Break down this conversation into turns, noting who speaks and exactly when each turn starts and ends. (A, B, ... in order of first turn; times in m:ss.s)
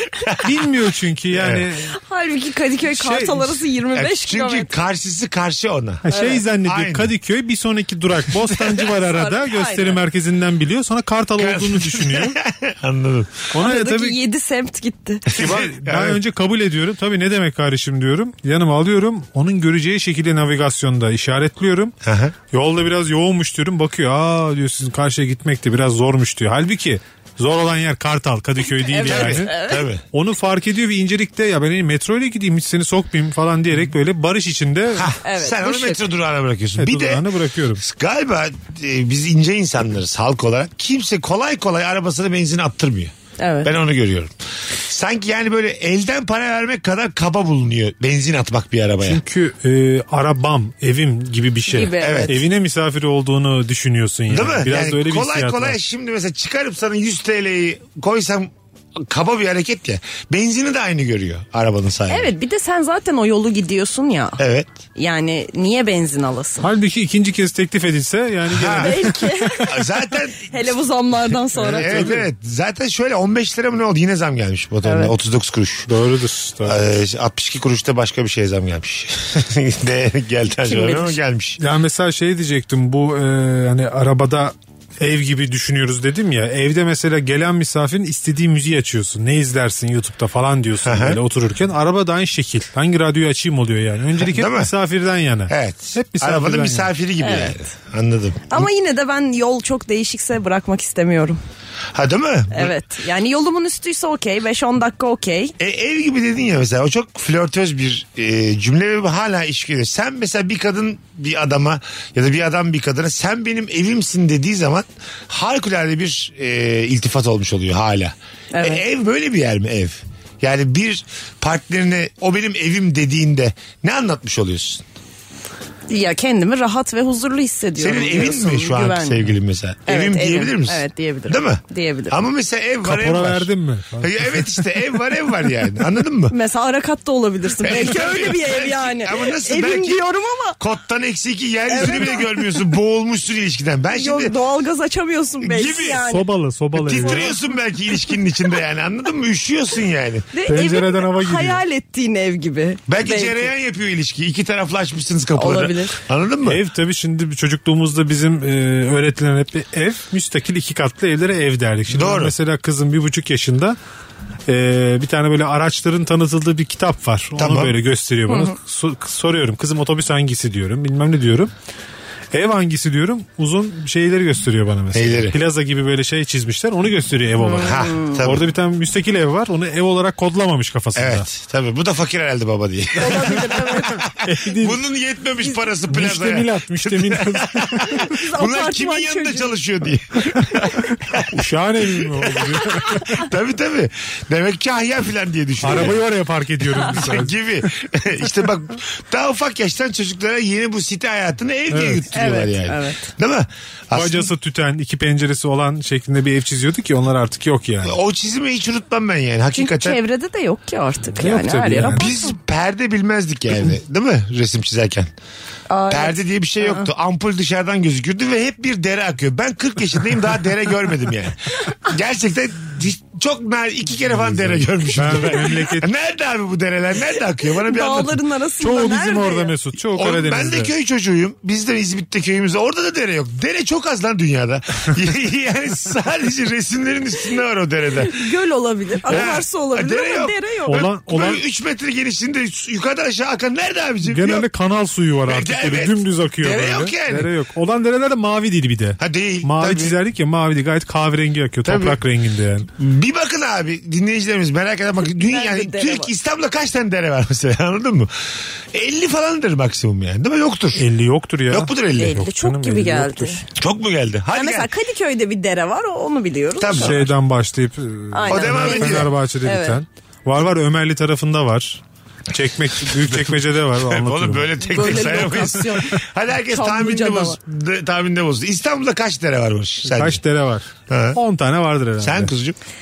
0:00.2-0:00.5 A
0:00.4-0:01.9 B
0:01.3-0:01.7 A
0:01.9-0:04.7 C
0:02.9-0:03.6 B
0:04.0-0:06.0 A
0:06.0-0:12.4 B
0:06.1-0:06.4 C
0:06.6-0:07.1 A
0:08.9-0:10.0 C
0:11.4-0:13.4 A
0:13.5-0:14.2 B
0:13.6-0:15.3 C
0:15.3-0:16.2 A
0:15.3-0:21.9 B
0:22.0-0:22.4 A
0:22.5-0:29.5 B
0:28.8-0:29.9 C
0:29.0-0:30.0 A
0:30.1-0:35.1 B
0:35.0-0:37.2 A
0:35.2-0:36.1 C
0:36.8-0:37.8 B
0:37.8-0:49.2 A
0:43.4-0:43.7 C
0:49.0-0:55.8 B
0:51.7-0:52.4 C
0:52.0-0:52.4 A
0:54.3-1:02.3 A
1:02.1-1:04.4 C
1:04.4-1:04.7 A
1:05.0-1:06.7 C
1:06.6-1:09.6 B
1:08.5-1:10.5 A
1:08.7-1:09.7 C
1:10.5-1:12.1 C
1:11.5-1:12.3 B
1:11.8-1:15.9 A
1:14.8-1:15.1 C
1:15.9-1:16.9 B
1:16.6-1:21.6 A
1:20.6-1:21.2 C
1:21.6-1:36.9 B
1:30.8-1:31.2 A
1:34.2-1:34.7 A
1:35.5-1:38.7 A
1:37.2-1:37.6 C
1:38.5-1:41.4 C
1:41.9-1:42.7 A
1:42.5-1:45.5 C
1:45.6-2:04.8 A
1:58.5-1:58.8 C
2:05.9-2:09.3 C
2:07.8-2:13.5 A
2:09.9-2:12.2 C
2:12.8-2:14.5 B
2:14.0-2:16.4 A
2:16.3-2:20.6 C
2:17.6-2:20.0 A
2:20.6-2:24.4 A
2:21.7-2:22.6 C
2:23.9-2:26.2 C
2:25.4-2:26.1 A
2:26.0-2:27.3 B
2:26.8-2:30.3 A
2:27.0-2:27.4 C
2:30.3-2:33.5 C
2:30.5-2:31.6 B
2:32.9-2:36.6 A
2:35.4-2:36.0 C
2:36.4-2:43.8 B
2:41.9-2:42.3 A
2:44.5-2:51.5 B
2:47.4-2:47.7 A
2:48.3-2:48.5 C
2:52.3-3:01.2 B
2:54.9-2:55.4 A
2:57.4-2:58.2 C
2:57.6-2:58.4 A
3:01.0-3:03.5 A
3:03.0-3:04.0 C
3:04.1-3:04.8 B
3:04.6-3:11.3 A
3:05.9-3:08.1 B
3:08.1-3:09.5 C
3:11.3-3:13.2 B
3:12.2-3:12.4 A
3:13.1-3:16.0 A
3:15.6-3:17.4 B
3:16.8-3:24.3 A
3:21.7-3:22.0 B
3:22.1-3:23.1 C
3:23.9-3:28.0 B
3:27.8-3:30.0 A
3:29.5-3:32.3 C
3:31.2-3:32.1 B
3:31.8-3:35.1 A
3:35.7-3:36.9 C
3:35.9-3:48.2 A
3:44.2-3:45.9 B
3:47.7-3:49.5 C
3:48.6-3:50.7 B
3:50.0-3:58.1 A
3:58.0-4:00.8 C
3:59.1-4:04.5 A
4:00.7-4:01.4 B
4:04.0-4:12.7 B
4:05.3-4:07.3 A
4:09.0-4:10.0 A
4:11.6-4:12.0 A
4:12.8-4:18.1 A
4:15.2-4:16.1 C
4:18.7-4:20.9 A
4:20.8-4:23.4 B
4:21.5-4:22.2 A
4:22.0-4:23.4 C
4:23.6-4:24.7 A
4:24.3-4:27.0 C
4:26.6-4:27.1 A
4:26.8-4:35.4 B
4:28.1-4:29.8 C
4:28.3-4:29.1 A
4:33.0-4:40.2 A
4:34.7-4:36.0 C
4:36.5-4:37.4 C
4:39.9-4:42.3 B
4:40.9-4:41.2 A
4:42.0-4:42.6 A